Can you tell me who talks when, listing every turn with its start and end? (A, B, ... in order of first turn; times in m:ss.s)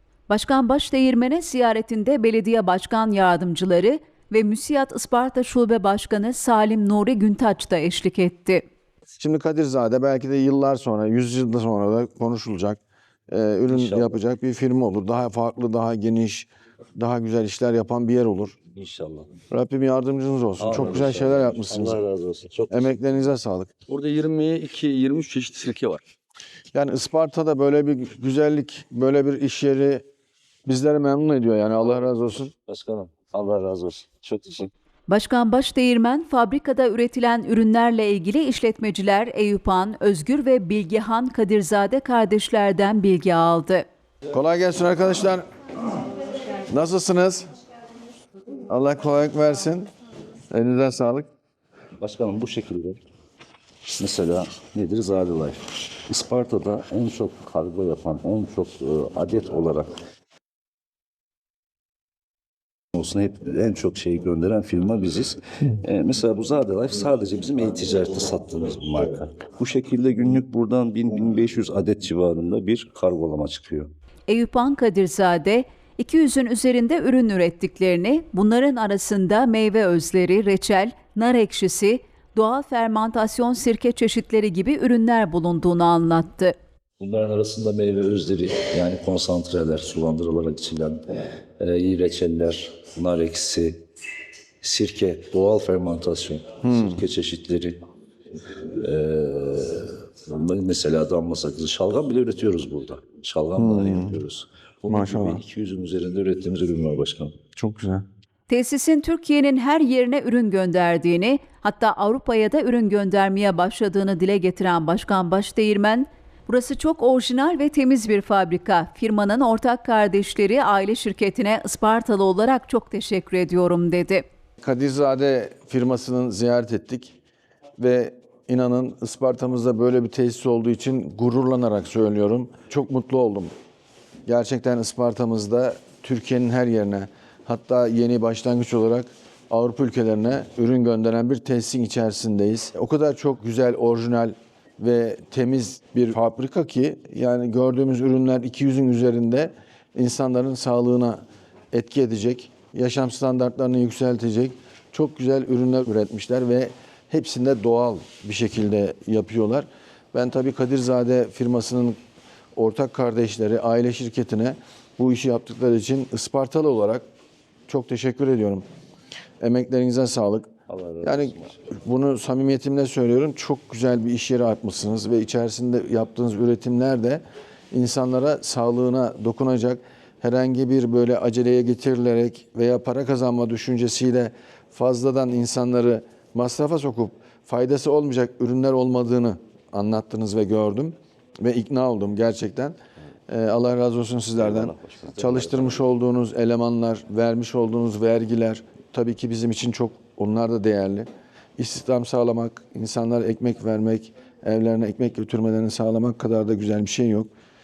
0:00.3-0:08.6 A
0:09.2-0:18.6 B
0:13.7-0:14.2 C
0:18.7-0:19.3 C
0:19.5-0:22.0 B
0:20.6-0:22.9 C
0:22.7-0:23.7 B
0:23.9-0:26.0 D
0:26.7-0:30.0 B
0:30.6-0:32.5 B
0:32.7-0:34.7 C
0:35.1-0:43.8 A
0:44.3-0:45.4 B
0:46.7-0:47.5 B
0:48.7-0:49.9 B
0:50.5-0:51.2 B
0:52.0-0:53.0 C
0:54.0-0:59.9 C
1:02.9-1:13.9 C
1:14.3-1:26.5 A
1:27.0-1:31.0 C
1:31.6-1:33.8 C
1:34.6-1:37.8 C
1:36.6-1:37.0 B
1:38.6-1:47.3 C
1:43.6-1:44.2 B
1:44.9-1:45.4 B
1:47.6-1:48.0 B
1:48.5-2:04.2 A
2:04.6-2:07.1 B
2:07.8-2:13.5 B
2:14.2-2:42.0 B
2:42.5-2:47.0 B
2:47.7-2:48.6 B
2:49.4-2:50.5 B
2:50.7-2:51.5 C
2:51.0-3:12.8 B
3:13.3-3:27.3 B
3:14.4-3:15.8 C